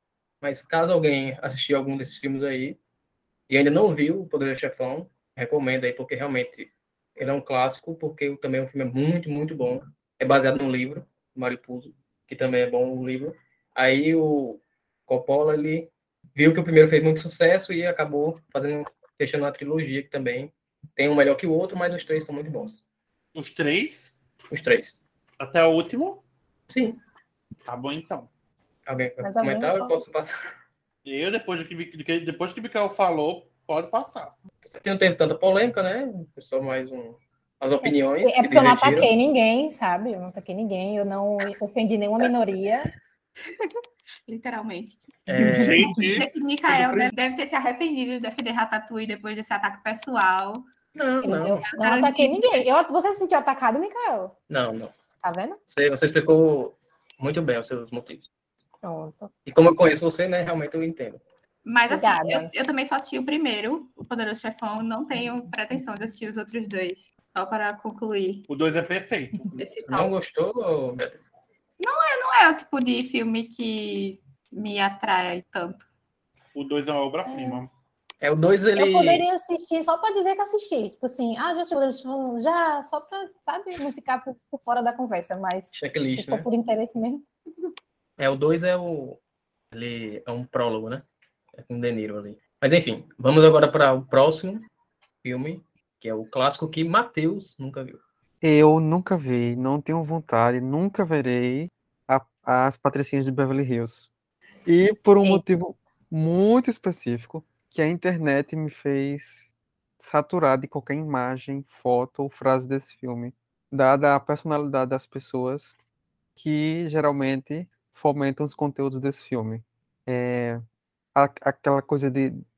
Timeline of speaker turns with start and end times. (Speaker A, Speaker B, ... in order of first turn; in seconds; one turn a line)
Speaker A: 0.4-2.8
Speaker A: 3.5-22.8
Speaker B: 23.4-24.1
Speaker A: 24.5-25.0
Speaker B: 25.4-26.2
Speaker A: 26.7-27.0
Speaker B: 27.7-28.3
Speaker A: 28.9-30.3
Speaker C: 29.2-30.0
Speaker B: 31.1-34.4
Speaker A: 34.6-39.1
Speaker C: 37.8-42.9
Speaker D: 43.5-43.7
Speaker D: 44.3-45.0
Speaker A: 45.3-45.9
Speaker B: 45.4-47.1
Speaker C: 45.6-46.0
Speaker D: 46.0-50.6
Speaker A: 51.0-51.6
Speaker C: 51.2-54.4
Speaker D: 51.7-52.7
Speaker A: 54.5-54.9
Speaker C: 55.2-55.6
Speaker A: 55.7-58.3
Speaker C: 58.8-59.3
Speaker A: 59.5-61.2
Speaker D: 61.6-68.5
Speaker C: 61.9-62.5
Speaker B: 68.5-69.6
Speaker D: 69.5-70.1
Speaker A: 69.8-71.2
Speaker D: 71.8-75.9
Speaker B: 76.5-77.7
Speaker C: 77.3-77.6
Speaker A: 78.2-79.2
Speaker C: 78.8-87.2
Speaker A: 85.7-86.5
Speaker A: 88.2-89.2
Speaker A: 89.7-94.6
Speaker A: 95.2-98.0
Speaker E: 98.4-104.1
Speaker E: 104.7-109.5
Speaker E: 110.0-115.7
Speaker E: 116.4-120.6
Speaker E: 121.2-122.4